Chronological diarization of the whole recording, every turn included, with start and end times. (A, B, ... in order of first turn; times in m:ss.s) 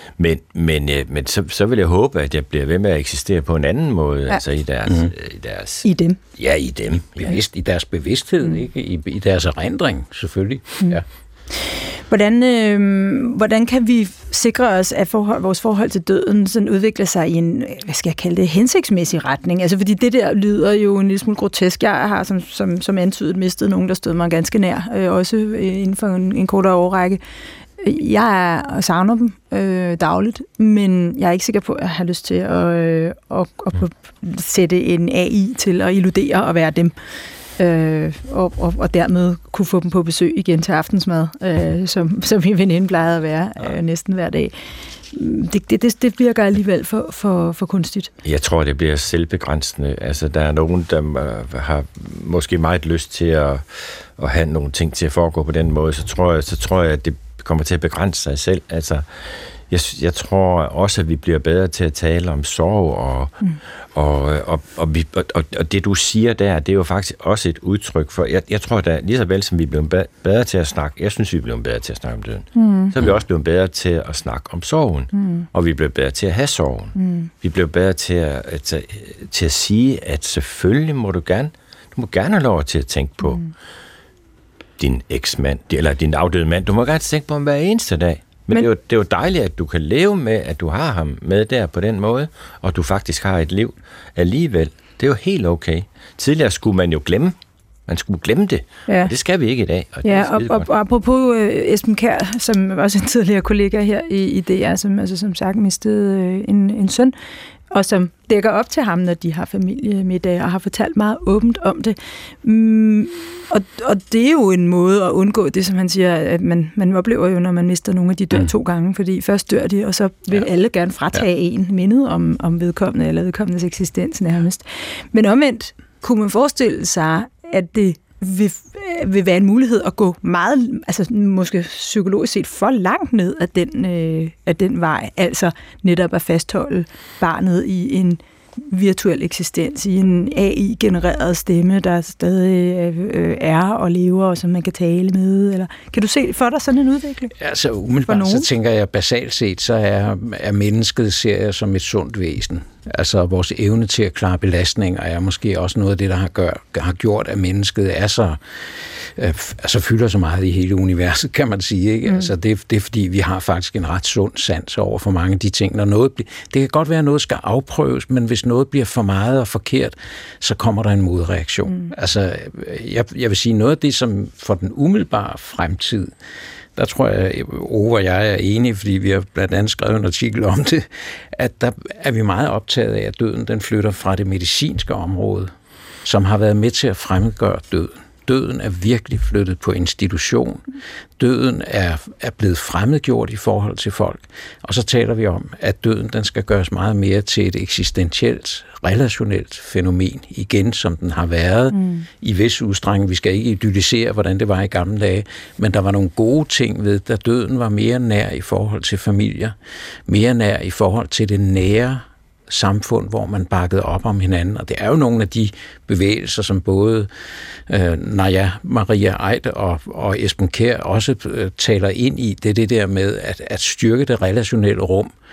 0:00.2-0:05.8 A
0:05.8-0:06.2 B
0:06.4-0:07.4 A
0:07.2-0:11.0 C
0:11.5-0:27.2 B
0:27.8-0:36.9 B
0:37.6-0:44.5 B
0:45.1-0:48.1 B
0:48.2-1:03.4 A
1:03.9-1:23.4 A
1:12.5-1:13.0 B
1:15.1-1:15.4 B
1:17.0-1:17.3 B
1:23.2-1:23.5 B
1:24.8-1:37.4 A
1:37.9-1:40.7 A
1:38.9-1:39.1 B
1:40.0-1:47.1 B
1:47.7-2:27.3 B
2:27.4-2:56.1 C
2:28.1-2:28.5 B
2:56.8-3:05.5 C
3:06.0-3:10.6 C
3:11.2-3:29.5 C
3:21.7-3:22.0 B
3:30.1-3:37.1 C
3:37.7-3:45.1 C